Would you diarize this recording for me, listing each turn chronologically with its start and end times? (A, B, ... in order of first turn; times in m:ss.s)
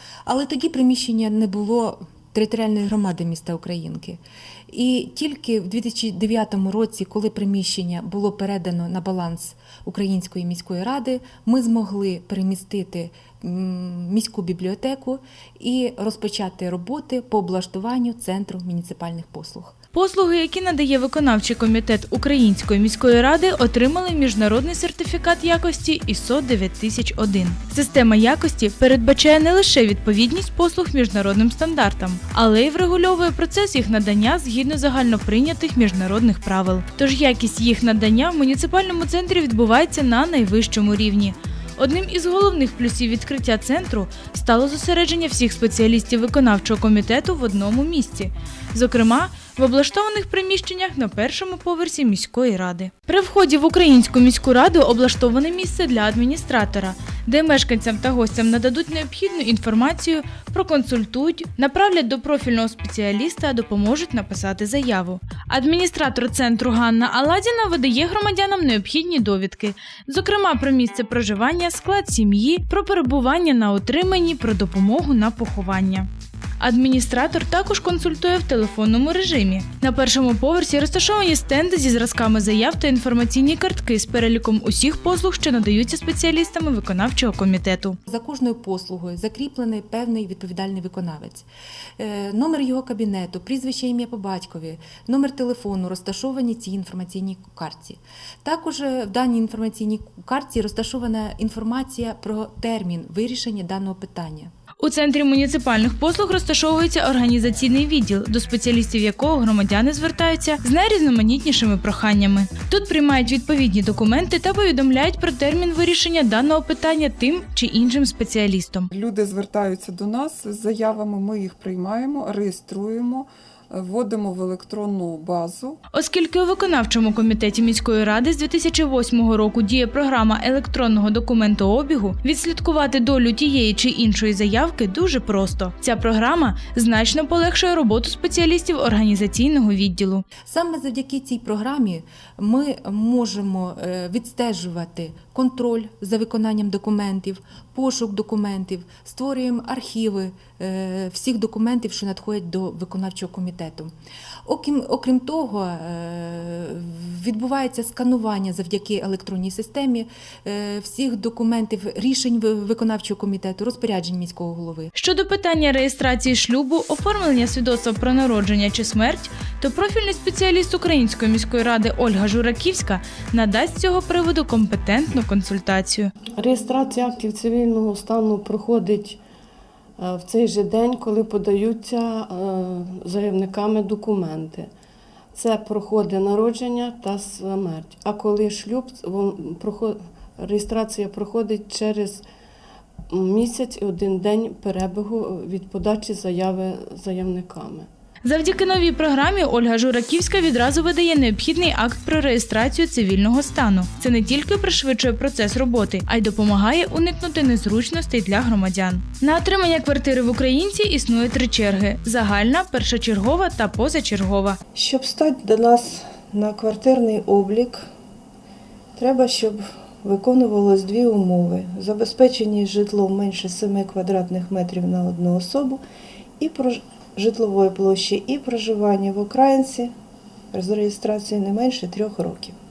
0:00.3-0:19.8 A
0:19.9-1:16.1 B
1:16.6-1:28.0 B
1:28.1-1:31.5 A
1:32.0-1:44.5 A
1:44.8-1:58.9 B
1:58.9-2:05.8 C
2:05.9-2:20.2 B
2:20.5-2:33.9 A
2:34.5-2:44.9 A
2:45.0-2:56.1 B
2:56.4-2:59.2 D
3:00.0-3:04.7 D
3:05.3-3:12.2 D
3:13.1-3:17.9 D
3:18.2-3:34.6 B
3:34.8-3:37.8 E
3:39.0-3:45.8 E
3:46.4-3:49.9 E
3:50.5-3:52.6 E